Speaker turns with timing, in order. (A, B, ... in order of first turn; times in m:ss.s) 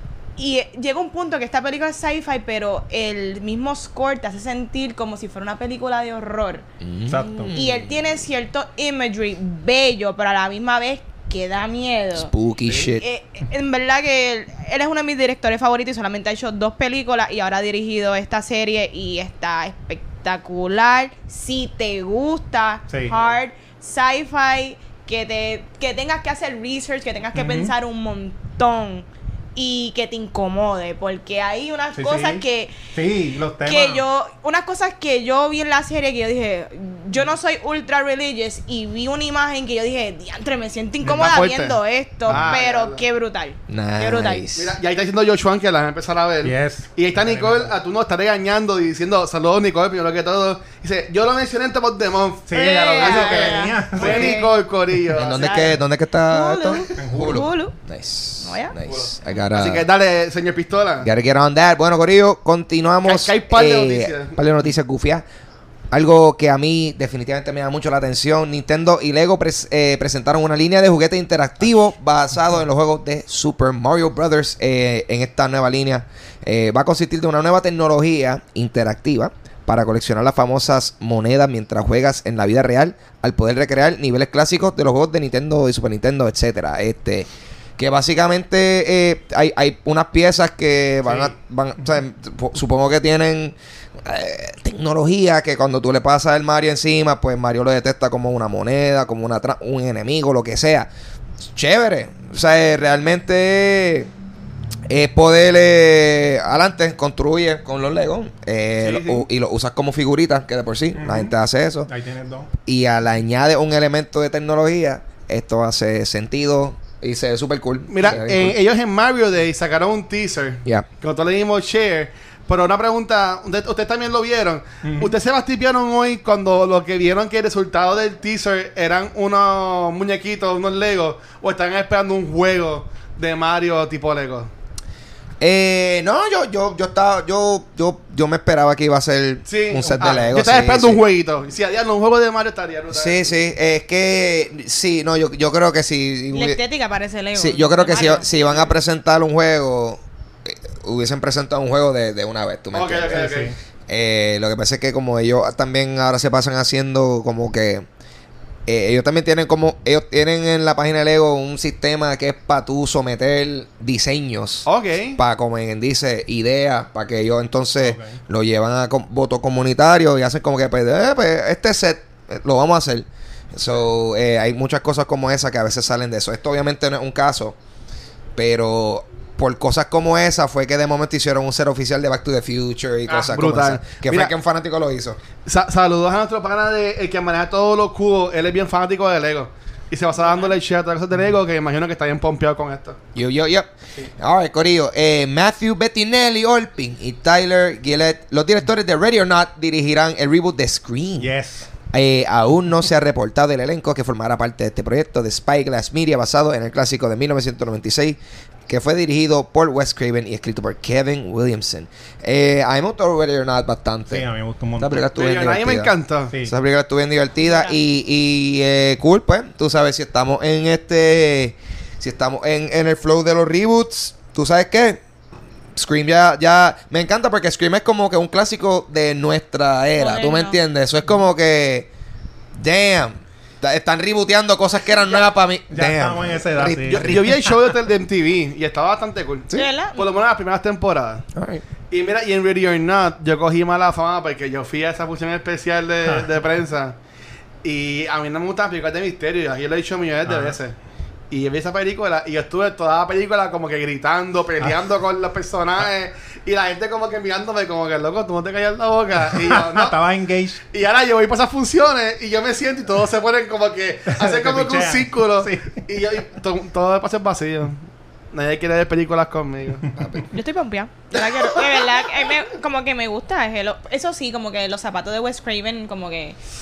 0:00.4-0:06.6 A
0:06.8-0:07.9 B
0:07.1-0:07.6 C
0:07.2-0:32.8 A
0:12.1-0:13.0 B
0:23.1-0:23.3 D
0:27.3-0:27.7 C
0:32.0-0:34.0 C
0:33.6-0:44.4 A
0:41.0-0:41.3 C
0:41.2-0:43.0 D
0:42.3-0:42.6 C
0:43.7-0:44.7 B
0:44.5-0:55.7 D
0:46.4-0:47.7 C
0:52.5-0:54.4 C
0:52.5-0:54.5 A
0:55.1-0:59.8 B
0:55.4-0:55.7 A
0:56.3-0:57.8 A
0:57.0-0:57.5 C
0:58.4-0:58.8 A
0:58.9-1:01.1 D
1:01.0-1:05.2 B
1:03.0-1:04.4 D
1:05.9-1:40.9 B
1:41.5-1:44.1 B
1:44.9-1:51.9 B
1:48.8-1:49.2 D
1:51.0-1:51.3 C
1:51.9-1:52.5 C
1:52.6-1:58.6 B
1:57.9-2:14.5 D
2:04.8-2:05.1 C
2:15.4-2:21.0 B
2:19.4-2:23.3 D
2:19.8-2:20.3 C
2:22.9-2:26.6 B
2:26.3-2:28.3 A
2:27.3-2:33.3 B
2:28.4-2:28.7 D
2:32.7-2:33.5 D
2:33.1-2:33.6 C
2:33.9-2:37.9 B
2:38.7-2:57.6 B
2:44.6-2:45.2 D
2:47.8-2:48.2 C
2:58.4-3:05.2 B
3:03.1-3:04.3 D
3:05.4-3:13.0 D
3:10.2-3:10.6 A
3:13.1-3:21.3 B
3:21.2-3:21.7 C
3:21.9-3:34.2 B
3:34.1-3:35.0 C
3:34.8-3:35.9 B
3:35.1-3:36.3 D
3:36.4-3:45.0 B
3:37.4-3:37.8 A
3:45.8-3:51.9 B
3:50.0-3:50.6 A
3:52.5-3:57.3 B
3:55.7-3:57.5 C
3:56.9-4:01.2 D
3:59.5-4:00.0 A
4:01.3-4:01.6 B
4:01.9-4:07.0 D
4:07.6-4:10.8 D
4:10.2-4:10.6 C
4:11.3-4:19.9 D
4:19.2-4:20.6 C
4:20.7-4:27.8 D
4:24.1-4:25.8 C
4:28.3-4:29.9 D
4:29.8-4:30.3 C
4:30.3-4:36.4 A
4:31.4-4:31.7 D